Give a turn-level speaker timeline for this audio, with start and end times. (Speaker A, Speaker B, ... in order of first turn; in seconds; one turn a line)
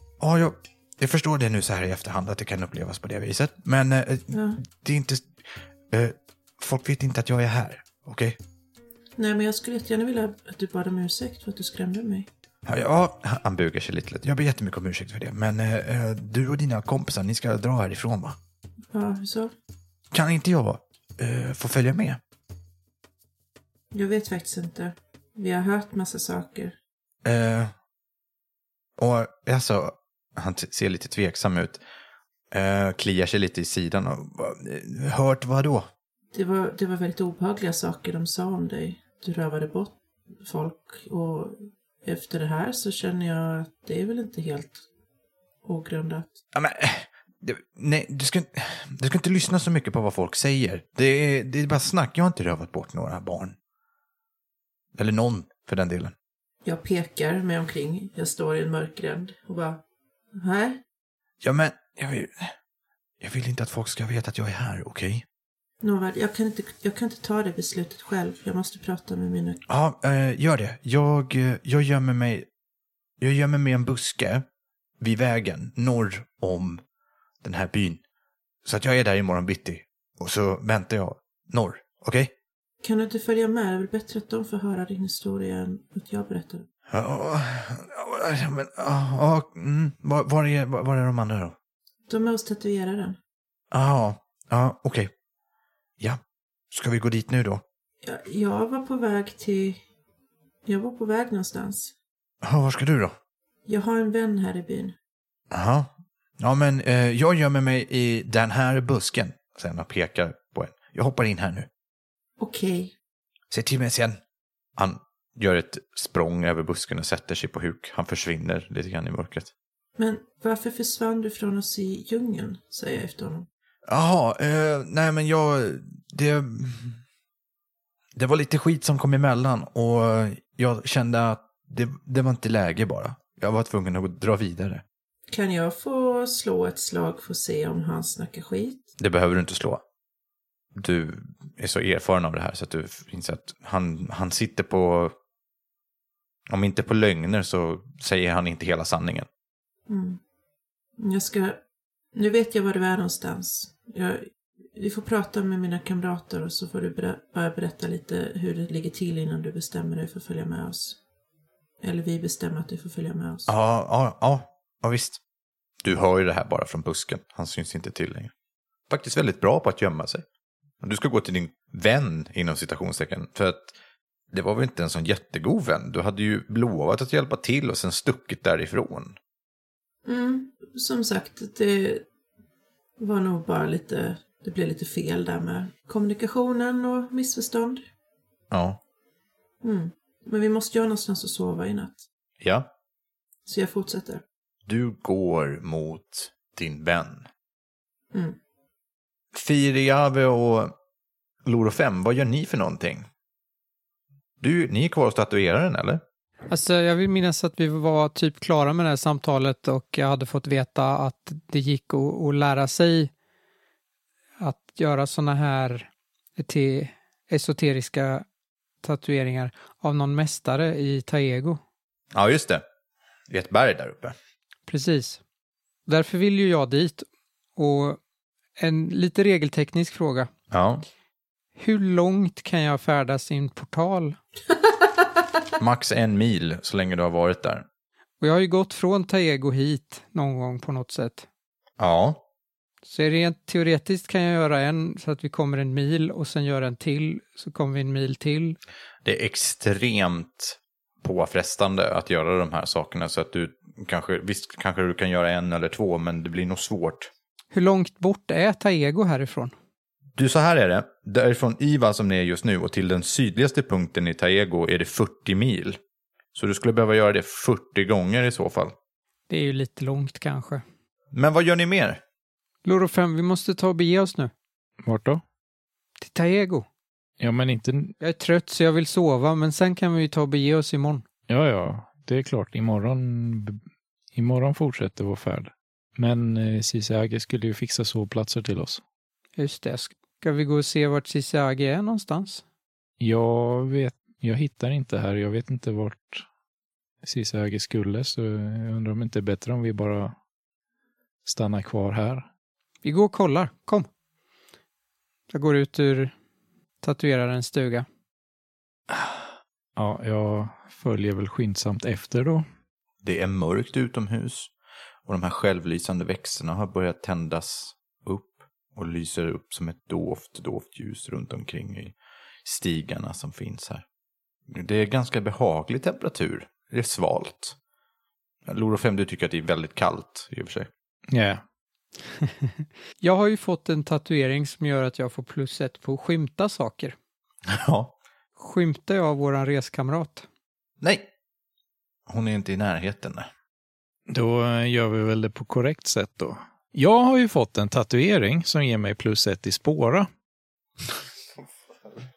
Speaker A: 0.2-8.4
Speaker B: 4.3-4.6
Speaker B: 9.2-12.3
Speaker A: 12.7-18.4
Speaker B: 18.9-19.5
Speaker A: 20.1-22.2
Speaker B: 23.9-26.8
Speaker A: 27.2-27.7
Speaker A: 29.0-31.8
Speaker A: 32.5-35.9
Speaker B: 36.3-44.8
Speaker B: 45.6-46.3
Speaker A: 46.5-53.5
Speaker A: 55.0-56.1
Speaker B: 56.6-59.8
Speaker B: 60.3-60.8
Speaker A: 61.4-62.5
Speaker A: 63.2-65.2
Speaker B: 65.8-69.6
Speaker A: 69.7-72.5
Speaker A: 73.2-74.4
Speaker A: 75.0-76.8
Speaker A: 77.4-78.0
Speaker A: 78.6-82.3
Speaker B: 82.8-86.7
Speaker A: 86.9-91.5
Speaker B: 92.1-93.2
Speaker A: 93.7-95.1
Speaker A: 96.7-97.6
Speaker B: 98.0-99.8
Speaker B: 100.7-101.9
Speaker A: 102.4-103.2
Speaker B: 103.7-104.9
Speaker A: 105.5-111.7
Speaker B: 112.4-112.9
Speaker A: 113.5-114.2
Speaker A: 114.8-119.5
Speaker B: 120.0-123.5
Speaker A: 123.9-127.0
Speaker A: 128.2-134.8
Speaker B: 135.3-138.8
Speaker A: 139.0-139.8
Speaker A: 140.7-145.1
Speaker A: 146.5-149.3
Speaker B: 149.9-150.2
Speaker B: 151.0-151.6
Speaker B: 152.1-161.0
Speaker B: 161.8-163.5
Speaker A: 163.5-165.2
Speaker A: 165.8-168.3
Speaker A: 168.9-170.2
Speaker A: 170.8-173.7
Speaker A: 174.3-179.2
Speaker B: 180.0-182.0
Speaker B: 183.0-187.8
Speaker A: 188.5-188.8
Speaker B: 189.6-192.0
Speaker A: 192.4-192.7
Speaker B: 193.4-194.2
Speaker A: 194.7-197.3
Speaker A: 199.3-200.7
Speaker A: 201.4-203.1
Speaker A: 204.4-206.0
Speaker C: 206.5-213.1
Speaker C: 214.4-218.2
Speaker C: 218.8-221.6
Speaker A: 222.1-222.6
Speaker A: 223.3-224.2
Speaker C: 224.7-225.2
Speaker C: 225.9-228.0
Speaker C: 228.6-230.3
Speaker A: 230.5-230.8
Speaker C: 231.6-234.2
Speaker A: 235.6-237.6
Speaker C: 238.2-241.3
Speaker A: 241.8-242.2
Speaker C: 242.8-248.6
Speaker A: 249.0-257.1
Speaker C: 257.5-259.5
Speaker A: 260.2-265.8
Speaker A: 266.3-268.7
Speaker C: 269.3-270.6
Speaker A: 271.1-272.0
Speaker C: 272.6-274.3
Speaker D: 274.8-275.2
Speaker C: 276.0-276.6
Speaker D: 277.2-277.9
Speaker C: 278.0-281.0
Speaker D: 281.3-283.6
Speaker D: 284.1-288.8
Speaker C: 289.4-292.4
Speaker D: 293.0-296.2
Speaker D: 297.0-300.1
Speaker D: 301.2-302.3
Speaker C: 302.8-303.9
Speaker C: 305.3-306.1
Speaker C: 306.8-307.9
Speaker D: 309.8-312.4
Speaker A: 313.0-314.5
Speaker A: 315.1-323.8
Speaker A: 324.5-327.6
Speaker A: 328.4-330.7
Speaker D: 331.1-331.4
Speaker C: 332.2-336.9
Speaker A: 337.5-337.9
Speaker C: 338.4-340.2
Speaker A: 340.8-341.1
Speaker A: 342.1-343.3
Speaker D: 344.1-350.1